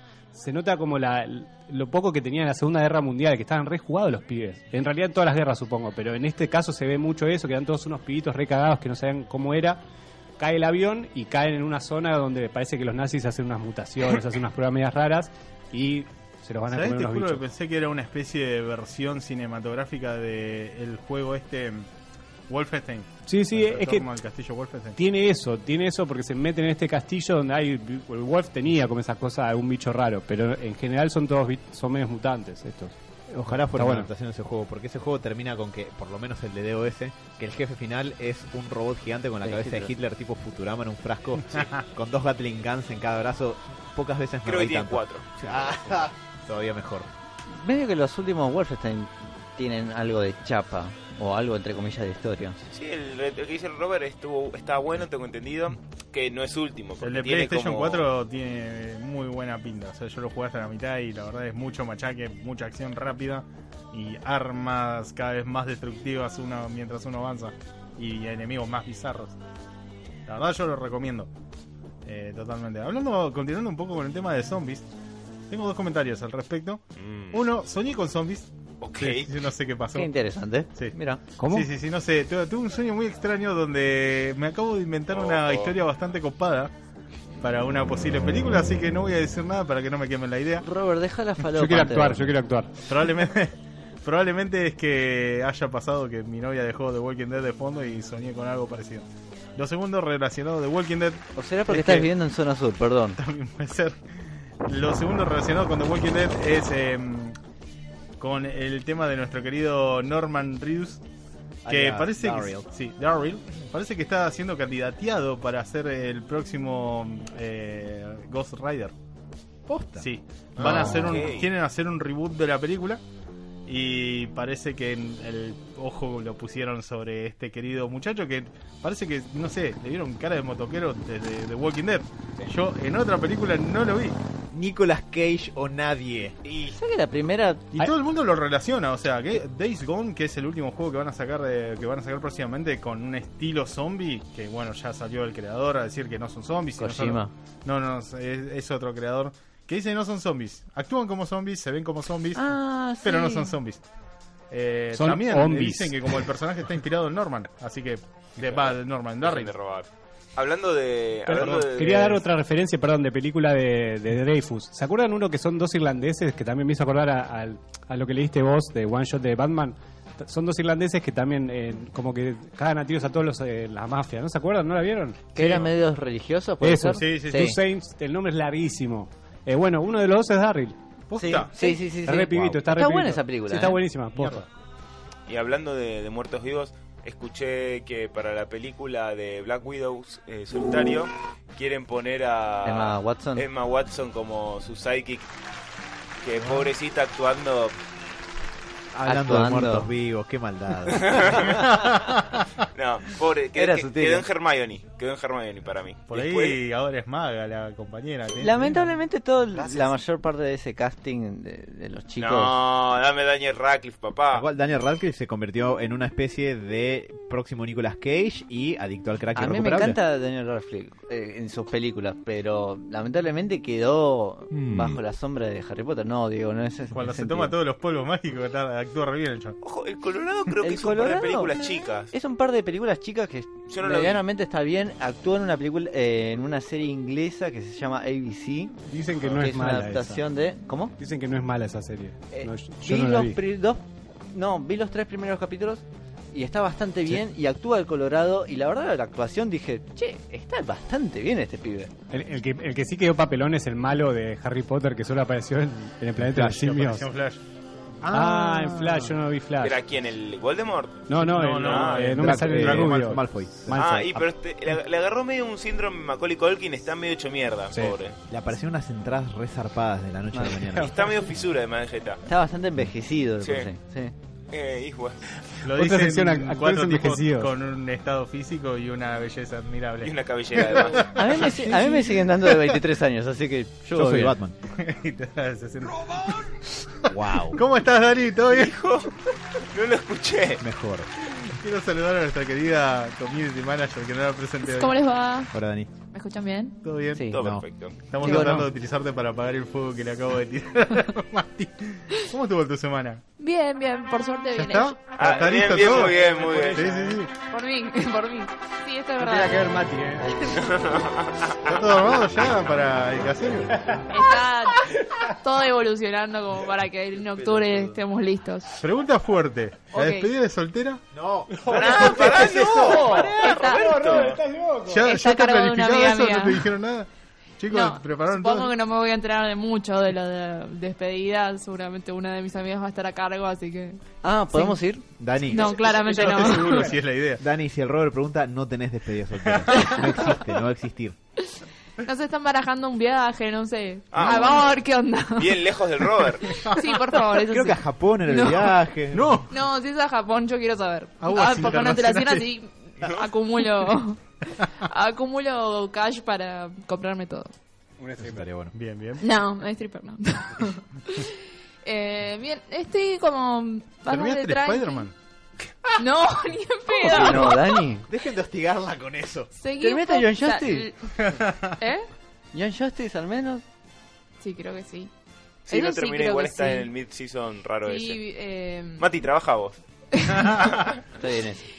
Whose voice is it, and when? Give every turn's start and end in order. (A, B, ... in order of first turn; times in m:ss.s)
0:00.3-0:09.8 A
0:10.4-0:17.4 A
0:16.7-0:21.9 B
0:22.5-0:25.0 B
0:23.3-0:24.1 A
0:25.0-0:32.9 A
0:33.3-0:47.1 C
0:33.6-0:34.1 A
0:39.4-0:39.9 D
0:44.4-0:45.8 E
0:47.5-0:52.6 D
0:52.7-0:58.1 E
0:57.0-1:09.4 B
1:10.3-1:11.3 B
1:12.0-1:14.9 B
1:15.5-1:20.1 B
1:17.0-1:17.4 E
1:18.8-1:19.3 E
1:19.9-1:21.2 D
1:21.4-1:21.7 A
1:21.5-1:26.7 B
1:25.1-1:25.7 E
1:27.4-1:30.6 B
1:30.6-1:32.4 D
1:31.5-1:32.8 A
1:32.9-1:33.5 B
1:34.0-1:42.1 B
1:41.4-1:43.2 D
1:43.2-1:44.0 B
1:44.6-1:47.4 B
1:48.2-1:51.0 B
1:51.6-1:52.6 C
1:51.7-1:58.9 B
1:59.7-2:00.1 C
2:00.0-2:03.0 B
2:00.6-2:01.5 E
2:03.7-2:14.2 B
2:14.5-2:16.4 C
2:16.4-2:16.7 E
2:16.8-2:17.7 D
2:17.8-2:32.4 B
2:26.8-2:27.3 D
2:32.4-2:33.5 D
2:33.0-2:33.8 B
2:34.5-2:39.5 B
2:34.9-2:36.2 A
2:38.4-2:38.7 E
2:39.2-2:42.2 E
2:41.3-2:55.6 A
2:55.4-2:57.6 D
2:56.6-3:00.8 A
2:57.0-2:57.5 B
3:01.1-3:01.5 B
3:01.2-3:03.8 D
3:01.6-3:04.4 A
3:04.2-3:04.4 B
3:05.3-3:15.3 E
3:12.6-3:13.4 D
3:16.2-3:17.8 E
3:18.9-3:21.4 C
3:19.0-3:19.9 D
3:20.9-3:21.7 E
3:21.6-3:22.4 B
3:22.7-3:26.6 E
3:23.6-3:24.3 D
3:26.1-3:28.9 B
3:28.4-3:32.6 D
3:32.2-3:34.4 E
3:34.3-3:40.0 C
3:39.4-3:47.5 D
3:46.9-3:49.6 B
3:49.6-3:52.1 E
3:50.6-3:51.5 D
3:52.1-4:00.9 D
3:53.7-3:54.2 E
3:58.9-4:00.2 A
4:01.0-4:03.4 A
4:02.3-4:11.9 D
4:12.1-4:17.1 A
4:16.2-4:16.7 C
4:16.5-4:17.4 B
4:18.1-4:19.8 A
4:19.6-4:22.2 E
4:21.1-4:24.2 A
4:21.2-4:23.1 B
4:22.2-4:24.2 C
4:23.7-4:28.2 E
4:28.3-4:31.0 C
4:30.3-4:30.8 D
4:30.8-4:32.2 E
4:32.3-4:34.1 D
4:33.4-4:33.7 E
4:34.5-4:35.2 E
4:35.5-4:37.5 A
4:35.6-4:41.8 B
4:40.0-4:41.5 E
4:41.1-4:44.4 D
4:43.9-4:44.6 C
4:44.7-4:48.8 B
4:47.1-4:47.6 C
4:48.5-4:50.6 E
4:50.6-4:51.1 C
4:51.4-4:55.0 B
4:54.6-4:55.5 F
4:55.5-4:55.9 C
4:56.1-4:56.8 F
4:56.8-4:57.3 B
4:57.1-4:57.4 D
4:57.3-4:58.1 E
4:57.4-4:57.6 C
4:58.1-5:03.2 B
4:58.2-4:58.6 D
4:58.3-4:58.6 A
5:03.4-5:05.0 F
5:04.5-5:07.3 B
5:05.2-5:07.1 E
5:07.4-5:09.8 F
5:09.2-5:10.6 A
5:10.6-5:11.8 E
5:11.6-5:13.7 B
5:13.7-5:14.1 A
5:14.1-5:18.8 F
5:14.8-5:15.3 A
5:17.4-5:17.7 C
5:18.8-5:21.0 B
5:19.9-5:20.3 F
5:21.1-5:23.2 C
5:21.5-5:25.0 A
5:21.7-5:24.4 E
5:21.9-5:22.4 B
5:23.4-5:24.3 F
5:24.9-5:27.1 B
5:25.0-5:26.7 F
5:27.6-5:28.7 B
5:27.7-5:34.0 F
5:34.2-5:35.0 D
5:34.5-5:34.8 F
5:35.2-5:35.8 C
5:35.4-5:36.9 F
5:35.7-5:37.4 B
5:37.4-5:41.2 C
5:39.4-5:40.2 B
5:39.8-5:40.3 F
5:41.5-5:46.0 F
5:44.1-5:44.8 E
5:45.4-5:46.7 E
5:46.5-5:46.8 B
5:46.6-5:48.8 F
5:47.4-5:49.4 C
5:49.1-5:49.5 B
5:49.5-5:54.2 F
5:51.2-5:52.5 B
5:53.0-5:53.3 E
5:54.8-5:57.5 F
5:58.0-5:58.4 A
5:58.2-5:58.7 C
5:58.7-5:59.2 B
5:59.2-6:01.3 F
6:01.8-6:05.1 F
6:04.1-6:05.1 B
6:06.0-6:07.8 F
6:07.0-6:08.1 D
6:08.1-6:09.5 C
6:09.5-6:12.1 F
6:09.8-6:10.9 D
6:11.2-6:11.7 B
6:12.5-6:13.6 D
6:14.4-6:15.1 F
6:15.7-6:18.2 E
6:15.7-6:16.9 F
6:17.8-6:19.1 F
6:19.0-6:19.8 E
6:20.1-6:20.7 F
6:20.5-6:21.0 E
6:21.2-6:21.6 D